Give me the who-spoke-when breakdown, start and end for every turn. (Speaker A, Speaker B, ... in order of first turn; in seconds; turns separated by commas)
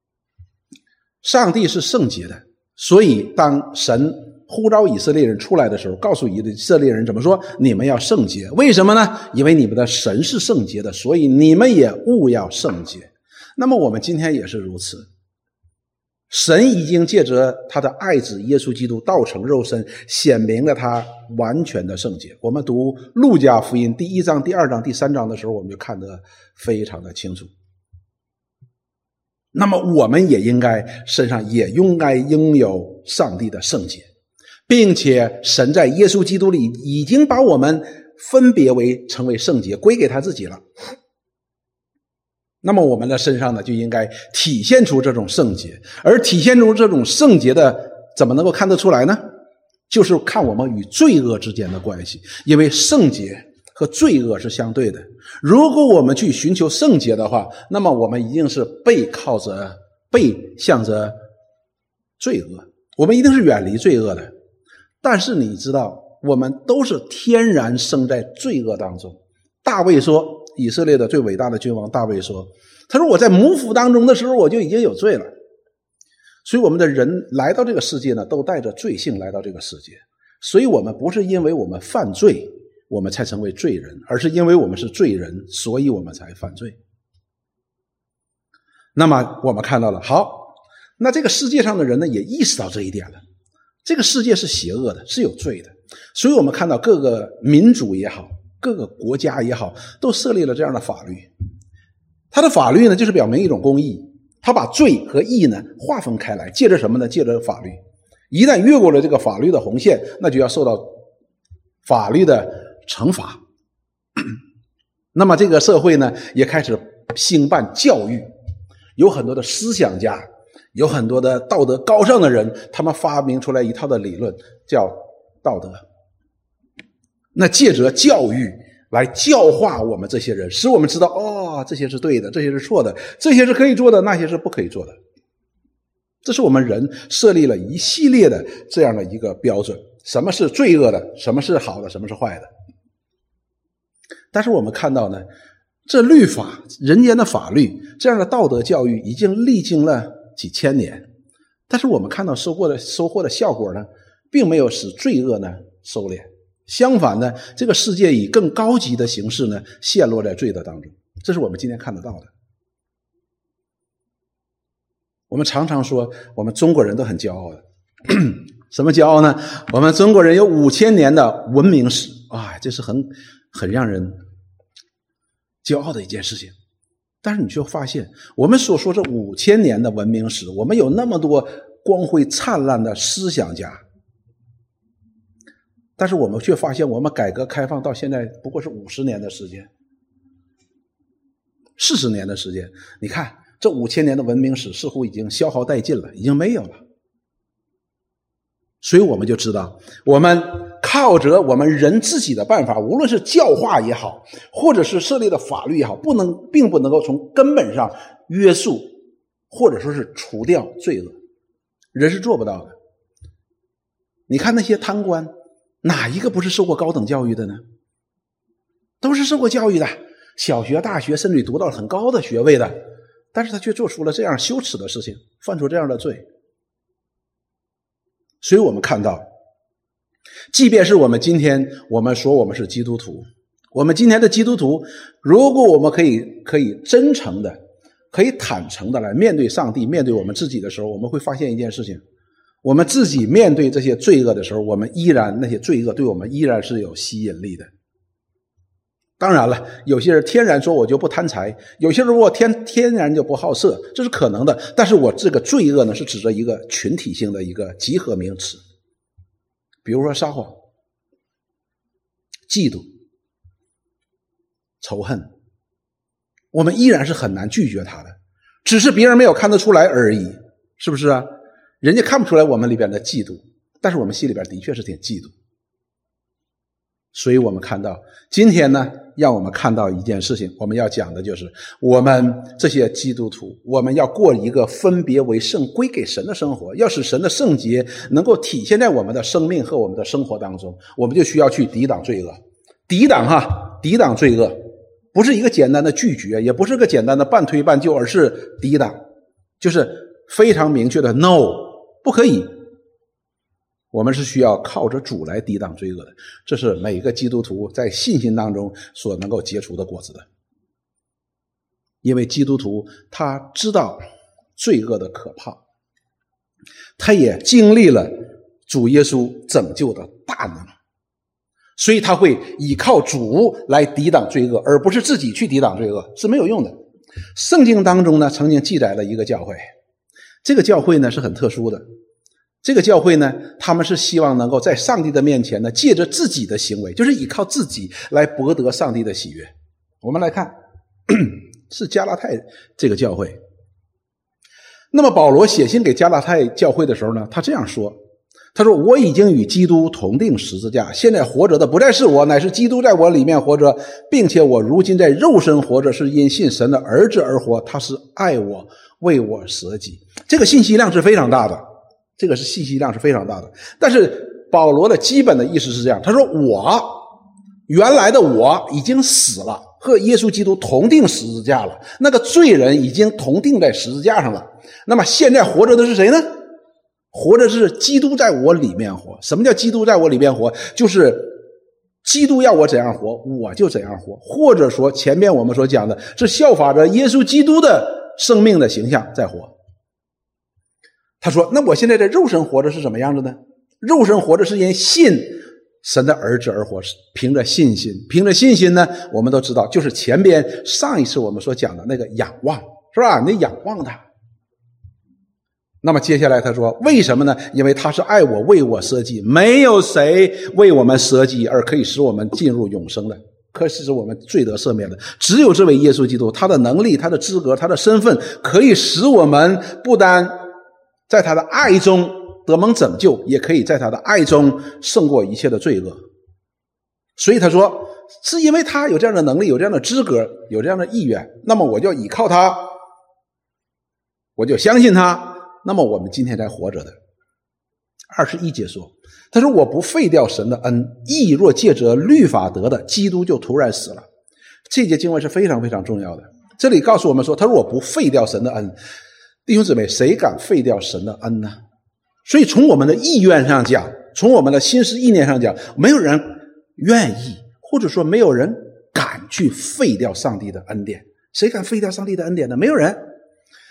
Speaker A: 1.2-15.1, Speaker A: 16.3-27.5, Speaker A: 29.5-34.1, Speaker A: 34.7-40.6, Speaker A: 42.6-49.2, Speaker A: 49.9-61.1, Speaker A: 62.2-64.3, Speaker A: 65.0-75.3, Speaker A: 76.5-86.8, Speaker A: 89.0-93.2, Speaker A: 93.8-101.3, Speaker A: 102.3-107.8, Speaker A: 108.3-111.0, Speaker A: 111.8-113.4, Speaker A: 115.1-118.3, Speaker A: 119.0-125.8, Speaker A: 127.3-135.0, Speaker A: 136.2-142.5, Speaker A: 144.3-145.2, Speaker A: 145.9-151.1, Speaker A: 151.7-162.3, Speaker A: 165.3-174.2, Speaker A: 175.6-176.5, Speaker A: 177.2-183.8, Speaker A: 186.0-189.7, Speaker A: 191.8-196.8, Speaker A: 198.8-209.0, Speaker A: 209.5-211.2, Speaker A: 211.9-212.8, Speaker A: 214.3-215.3, Speaker A: 215.8-217.6, Speaker A: 219.0-222.8, Speaker A: 223.3-226.2, Speaker A: 228.4-229.2, Speaker A: 230.5-237.6, Speaker A: 238.1-242.0, Speaker A: 242.6-247.7, Speaker A: 249.2-258.6, Speaker A: 259.8-260.6, Speaker A: 262.5-262.9, Speaker A: 264.8-265.3, Speaker A: 266.5-271.3, Speaker A: 271.8-275.3, Speaker A: 277.1-294.6, Speaker A: 295.1-299.0, Speaker A: 299.6-302.5, Speaker A: 303.9-310.2, Speaker A: 312.0-314.0, Speaker A: 314.6-315.6, Speaker A: 317.0-318.1, Speaker A: 318.7-320.7, Speaker A: 321.8-326.8, Speaker A: 327.4-329.6, Speaker A: 330.4-331.8, Speaker A: 332.6-339.5, Speaker A: 340.0-340.6, Speaker A: 341.1-343.4, Speaker A: 344.9-348.0, Speaker A: 348.5-361.6, Speaker A: 362.2-367.1, Speaker A: 367.7-376.3, Speaker A: 377.1-381.5, Speaker A: 382.0-389.5, Speaker A: 391.2-404.0, Speaker A: 405.8-420.4, Speaker A: 421.1-426.0, Speaker A: 427.2-432.7, Speaker A: 434.4-437.0, Speaker A: 438.1-444.1, Speaker A: 444.7-448.8, Speaker A: 449.5-451.6, Speaker A: 452.2-463.0